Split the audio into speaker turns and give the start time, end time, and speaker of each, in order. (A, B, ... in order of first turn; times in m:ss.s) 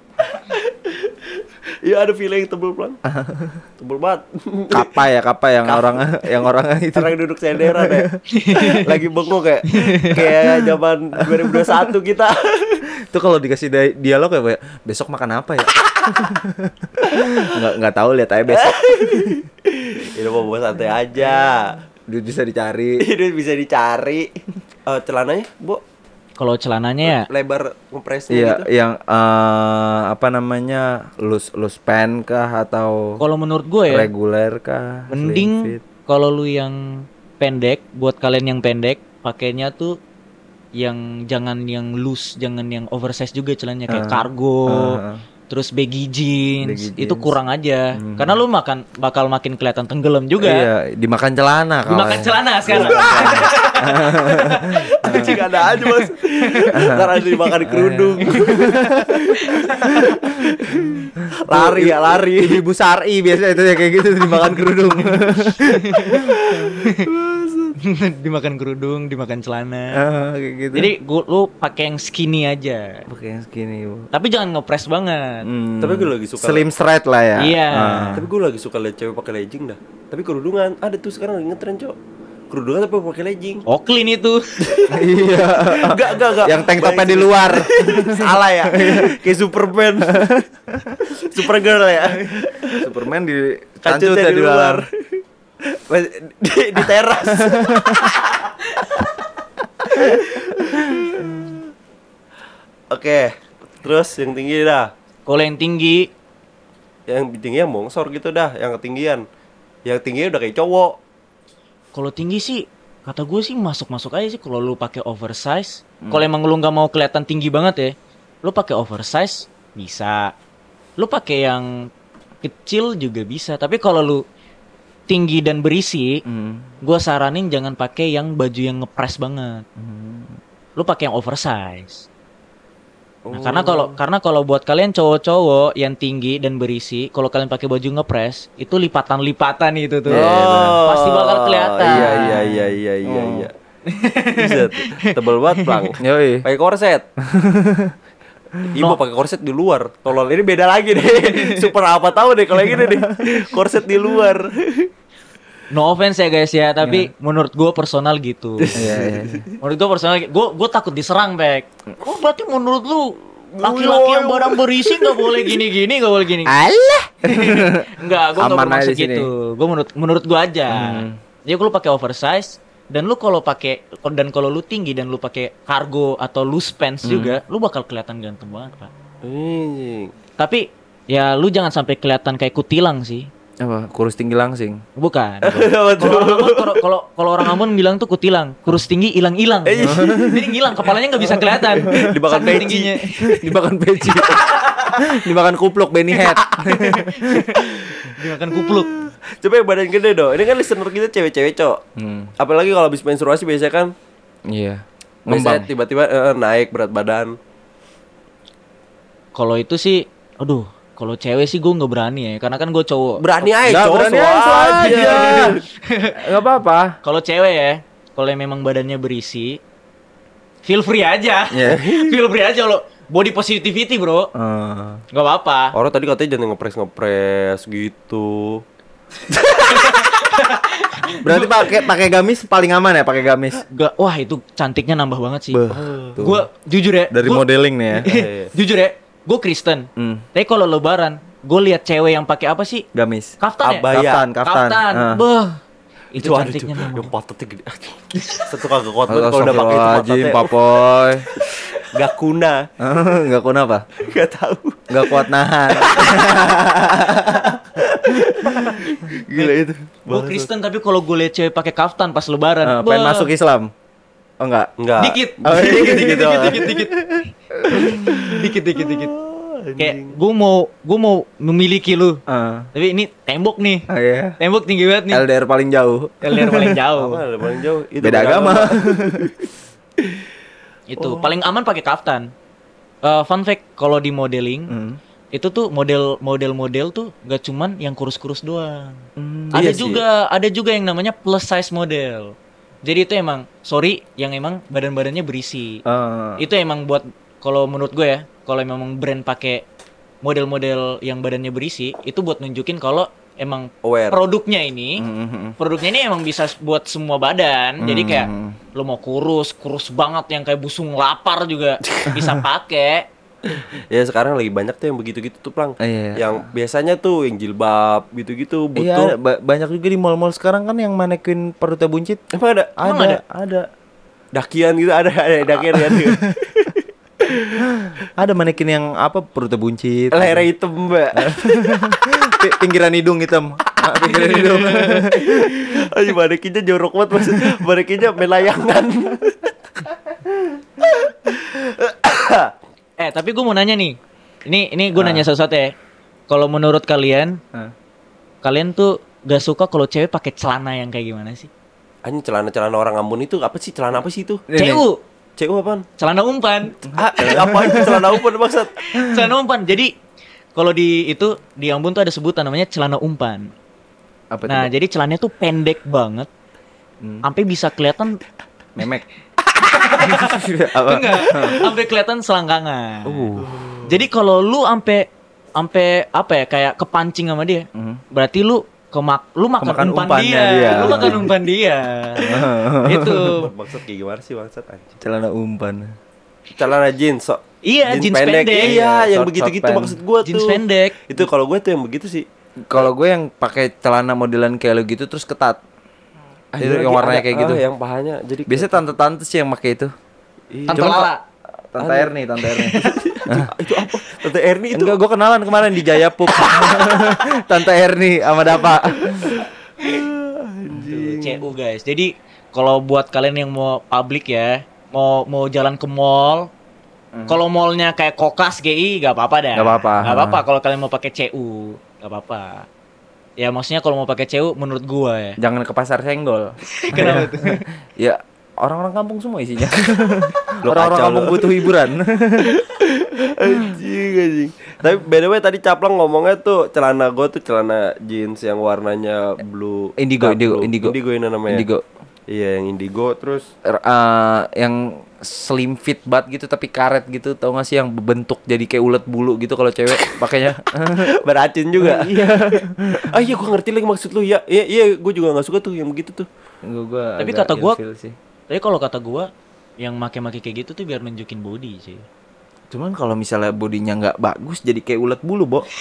0:00.3-0:03.0 A
0:03.0-0:03.6 B
0:03.8-0:04.9 A
0:04.7-0:08.2 B
0:05.6-0:06.0 A
0:06.9-0:12.8 A
0:08.3-0:09.0 C
0:09.7-0:10.2 C
0:11.4-0:11.8 B
0:13.1-0:19.4 B
0:17.0-0:17.4 A
0:18.5-0:21.8 A
0:22.1-0:23.0 B
0:23.0-0:24.3 A
0:24.9-0:25.8 A
0:26.4-0:27.3 C
0:27.0-0:28.6 A
0:28.3-0:33.2 B
0:33.2-0:34.1 C
0:33.9-0:35.8 B
0:35.1-0:40.0 C
0:40.8-0:50.7 C
0:43.9-0:45.2 B
0:46.6-0:47.4 B
0:47.9-0:48.4 B
0:50.4-0:55.4 B
0:51.9-0:56.7 C
0:52.7-0:53.7 A
0:54.8-1:02.6 A
0:56.7-0:57.1 B
0:57.6-0:59.2 B
0:58.3-0:58.7 C
0:59.4-1:00.1 C
1:01.2-1:06.7 B
1:04.3-1:04.7 A
1:05.6-1:06.3 C
1:06.4-1:07.8 A
1:07.8-1:10.0 C
1:09.9-1:10.9 B
1:10.7-1:13.0 C
1:13.1-1:14.1 B
1:14.1-1:15.5 C
1:15.4-1:18.3 B
1:15.8-1:16.6 A
1:17.4-1:18.2 C
1:18.2-1:22.0 A
1:22.5-1:23.6 A
1:23.7-1:24.8 C
1:24.6-1:30.3 A
1:24.9-1:29.1 B
1:30.1-1:31.0 B
1:31.1-1:32.9 A
1:32.8-1:34.8 B
1:33.8-1:34.9 A
1:35.7-1:38.4 A
1:37.4-1:38.1 B
1:39.9-1:41.0 A
1:42.9-1:44.9 A
1:45.3-1:46.1 C
1:47.1-1:49.2 A
1:49.8-1:51.0 A
1:51.9-2:00.3 C
1:56.0-1:56.3 B
2:01.0-2:01.9 C
2:02.4-2:04.2 C
2:05.1-2:06.2 C
2:06.3-2:06.7 B
2:06.8-2:09.6 C
2:09.8-2:10.4 B
2:10.8-2:12.1 C
2:13.2-2:13.9 B
2:13.3-2:22.6 C
2:20.1-2:20.8 B
2:20.1-2:23.5 A
2:21.9-2:22.5 B
2:23.0-2:23.5 B
2:23.9-2:25.8 C
2:24.3-2:27.1 A
2:26.0-2:26.5 B
2:27.2-2:28.0 B
2:28.6-2:34.9 A
2:35.7-2:38.8 C
2:36.8-2:37.1 B
2:38.6-2:39.6 A
2:38.8-2:39.4 B
2:39.6-2:46.6 C
2:43.5-2:45.6 A
2:46.5-2:49.3 B
2:47.2-2:58.9 C
2:50.7-2:51.2 B
2:57.0-2:57.4 B
2:59.2-3:00.1 A
3:00.4-3:03.3 C
3:03.6-3:04.8 B
3:05.0-3:13.5 C
3:05.4-3:06.8 A
3:09.7-3:10.4 A
3:09.8-3:10.4 B
3:11.3-3:13.0 A
3:11.8-3:12.2 B
3:13.2-3:17.6 B
3:14.2-3:15.0 C
3:16.8-3:18.9 C
3:17.6-3:18.1 A
3:19.4-3:21.8 A
3:22.0-3:22.3 B
3:22.4-3:23.9 A
3:24.5-3:25.7 B
3:25.3-3:27.4 A
3:29.4-3:33.2 C
3:33.2-3:35.6 A
3:33.6-3:35.6 B
3:34.8-3:36.2 C
3:36.2-3:37.0 B
3:37.0-3:39.6 C
3:40.6-3:44.3 C
3:41.5-3:41.9 B
3:41.7-3:42.2 A
3:44.3-3:45.0 B
3:45.1-3:45.8 C
3:45.7-3:48.6 A
3:49.6-3:51.8 C
3:51.2-3:53.6 B
3:53.7-3:55.6 C
3:55.5-3:56.5 B
3:55.7-3:56.2 A
3:56.2-3:57.4 C
3:57.1-3:58.1 B
3:58.0-4:02.8 C
3:58.0-3:58.5 A
4:00.0-4:00.2 B
4:03.0-4:03.4 B
4:03.4-4:03.9 C
4:03.6-4:04.2 A
4:03.9-4:05.2 B
4:04.4-4:05.6 C
4:06.1-4:07.1 C
4:06.2-4:10.5 A
4:09.1-4:11.3 B
4:11.9-4:12.7 A
4:12.8-4:13.9 B
4:14.0-4:15.2 A
4:14.9-4:18.2 B
4:15.7-4:16.5 A
4:17.8-4:20.5 A
4:20.1-4:23.3 C
4:22.6-4:23.7 B
4:24.4-4:24.7 B
4:24.8-4:26.7 A
4:25.0-4:27.0 C
4:25.4-4:28.4 B
4:27.7-4:29.2 C
4:27.7-4:28.1 A
4:28.8-4:30.2 A
4:29.8-4:32.2 C
4:32.3-4:32.7 B
4:32.8-4:33.9 C
4:33.9-4:34.4 B
4:34.4-4:35.2 C
4:35.1-4:36.8 B
4:36.2-4:37.2 C
4:36.9-4:39.3 A
4:38.0-4:39.3 B
4:40.9-4:42.3 C
4:41.0-4:41.3 A
4:43.0-4:44.7 C
4:44.7-4:45.0 B
4:45.3-4:55.8 C
4:49.2-4:49.7 B
4:49.5-4:50.0 A
4:55.9-4:56.5 B
4:56.4-4:59.6 C
5:00.2-5:05.0 C
5:03.8-5:04.2 A
5:05.0-5:05.6 B
5:05.6-5:13.1 C
5:07.8-5:08.6 B
5:13.5-5:19.1 A
5:15.8-5:16.5 B
5:18.8-5:22.2 B
5:22.3-5:22.8 A
5:22.8-5:23.7 B
5:22.8-5:23.2 C
5:24.3-5:27.6 A
5:25.6-5:26.2 B
5:27.8-5:30.5 B
5:30.1-5:32.3 A
5:31.2-5:35.6 B
5:34.0-5:39.5 A
5:34.2-5:34.5 C
5:40.8-5:42.5 A
5:43.0-5:45.7 C
5:45.0-5:45.3 B
5:46.3-5:47.4 C
5:48.4-5:51.5 C
5:52.0-5:54.4 A
5:54.5-5:54.9 B
5:54.6-5:55.0 C
5:55.4-5:55.8 A
5:56.0-5:56.8 C
5:56.9-5:58.8 A
5:57.2-5:58.0 B
5:58.9-5:59.9 C
6:00.6-6:03.5 C
6:04.3-6:04.7 B
6:04.5-6:06.3 C
6:07.0-6:07.3 B
6:07.2-6:08.2 C
6:08.8-6:09.1 B
6:09.7-6:23.5 C
6:10.0-6:11.7 B
6:13.0-6:13.5 B
6:13.4-6:14.0 A
6:17.8-6:18.0 B
6:19.6-6:21.3 B
6:22.2-6:23.4 B
6:23.3-6:25.0 A
6:25.0-6:26.0 B
6:26.6-6:32.9 A
6:27.6-6:28.8 C
6:28.6-6:30.0 B
6:30.2-6:31.0 C
6:32.7-6:35.6 B
6:36.6-6:38.7 A
6:36.6-6:37.6 B
6:38.5-6:39.9 B
6:40.5-6:41.1 A
6:40.7-6:41.2 C
6:40.7-6:41.1 B
6:41.7-6:43.5 B
6:41.8-6:45.0 A
6:44.7-6:49.4 B
6:49.2-6:51.5 A
6:50.9-6:56.5 C
6:57.1-6:57.4 B
6:57.3-7:02.7 C
6:59.5-7:00.4 B
7:03.4-7:05.4 C
7:05.4-7:12.5 B
7:06.8-7:07.6 C
7:10.6-7:11.7 A
7:12.4-7:21.7 A
7:20.0-7:21.0 B
7:21.5-7:21.8 B
7:22.3-7:23.5 A
7:23.6-7:31.1 B
7:31.0-7:36.3 A
7:31.8-7:33.2 B
7:36.6-7:38.2 B
7:37.2-7:37.8 C
7:38.5-7:42.0 C
7:42.7-7:45.7 B